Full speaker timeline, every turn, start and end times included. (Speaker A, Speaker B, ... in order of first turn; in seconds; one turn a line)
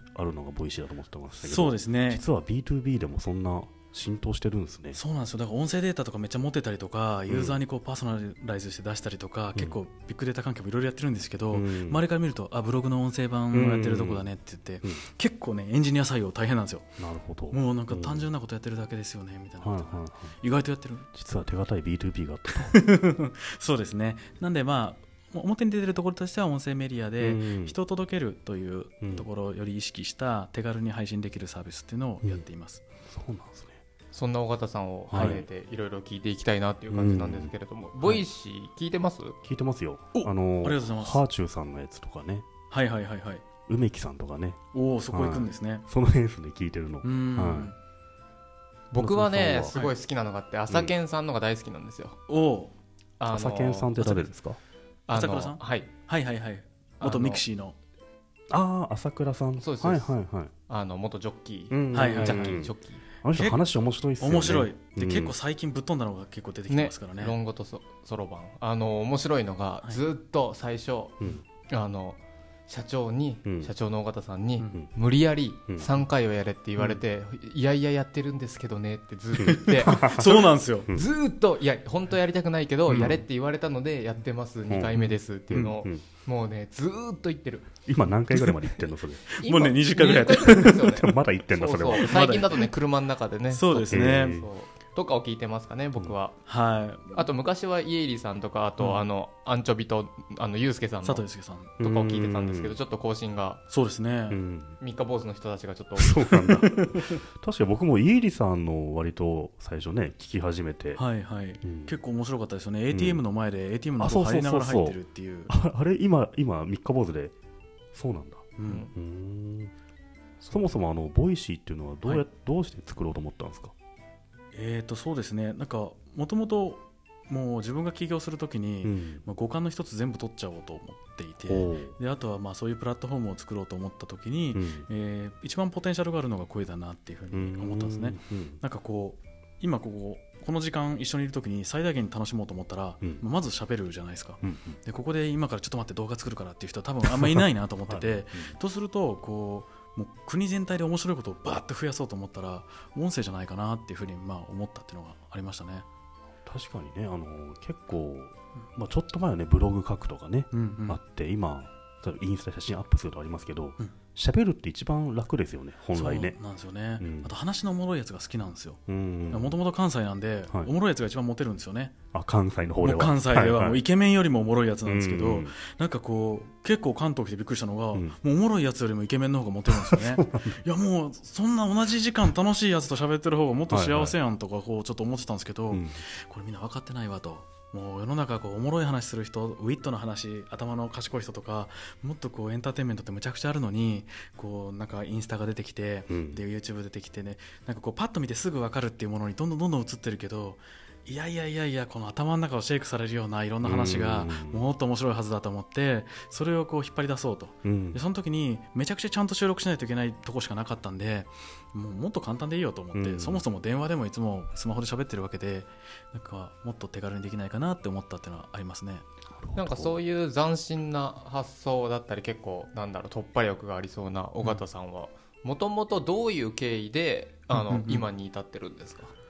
Speaker A: 0.1-5.0
Speaker B: 1.4-2.2
Speaker B: 5.0-17.0
Speaker A: 7.3-7.6
Speaker A: 11.5-12.0
Speaker A: 13.5-14.3
Speaker A: 17.0-18.3
Speaker B: 17.5-21.1
Speaker A: 19.6-20.4
Speaker A: 21.1-22.7
Speaker B: 22.6-32.8
Speaker A: 27.2-27.8
Speaker A: 29.0-29.3
Speaker A: 33.0-33.8
Speaker C: 34.1-39.4
Speaker A: 35.1-35.5
Speaker B: 35.1-35.4
Speaker A: 36.9-37.5
Speaker A: 39.4-42.5
Speaker B: 40.1-41.2
Speaker B: 42.7-43.4
Speaker A: 43.7-47.7
Speaker B: 44.7-45.9
Speaker B: 47.0-47.8
Speaker C: 48.9-52.2
Speaker A: 49.0-49.8
Speaker A: 50.7-51.0
Speaker B: 52.3-52.7
Speaker C: 53.2-54.3
Speaker A: 53.3-54.6
Speaker C: 55.1-55.9
Speaker B: 55.1-57.8
Speaker C: 57.0-57.4
Speaker A: 58.5-60.5
Speaker C: 59.6-60.1
Speaker C: 60.7-63.0
Speaker A: 61.7-65.3
Speaker B: 61.9-62.7
Speaker B: 63.3-63.6
Speaker B: 64.2-67.4
Speaker C: 66.7-80.0
Speaker A: 73.5-73.7
Speaker A: 75.7-76.0
Speaker A: 79.4-81.1
Speaker B: 79.4-80.9
Speaker C: 80.9-87.7
Speaker B: 82.9-83.2
Speaker A: 84.7-86.1
Speaker A: 87.9-89.3
Speaker B: 89.3-91.0
Speaker C: 89.4-96.5
Speaker A: 90.5-92.2
Speaker B: 91.9-92.7
Speaker B: 93.5-94.4
Speaker A: 93.9-94.5
Speaker B: 96.5-97.2
Speaker C: 97.1-101.3
Speaker B: 98.8-99.0
Speaker B: 101.0-101.7
Speaker C: 101.8-103.6
Speaker A: 101.8-102.8
Speaker B: 103.7-104.4
Speaker A: 104.3-104.8
Speaker C: 104.8-106.1
Speaker A: 106.0-111.0
Speaker B: 106.3-107.2
Speaker B: 111.0-115.5
Speaker A: 111.6-112.0
Speaker A: 112.9-113.2
Speaker A: 114.0-117.3
Speaker A: 117.9-119.7
Speaker B: 118.6-118.9
Speaker C: 120.4-120.8
Speaker A: 120.5-123.7
Speaker B: 124.5-155.9
Speaker A: 128.8-129.2
Speaker A: 131.4-131.9
Speaker A: 134.5-134.9
Speaker A: 137.3-138.6
Speaker A: 144.4-144.8
Speaker A: 147.2-148.6
Speaker A: 156.4-166.4
Speaker B: 160.5-161.0
Speaker B: 165.9-171.9
Speaker A: 167.0-167.3
Speaker A: 168.9-169.6
Speaker A: 172.1-173.8
Speaker B: 172.8-219.1
Speaker A: 174.8-175.6
Speaker A: 179.9-180.6
Speaker A: 183.7-184.2
Speaker A: 185.7-186.0
Speaker A: 196.1-196.4
Speaker A: 203.6-204.7
Speaker A: 207.6-208.0
Speaker A: 212.9-213.4
Speaker A: 219.3-220.0
Speaker C: 219.6-229.1
Speaker B: 227.5-228.1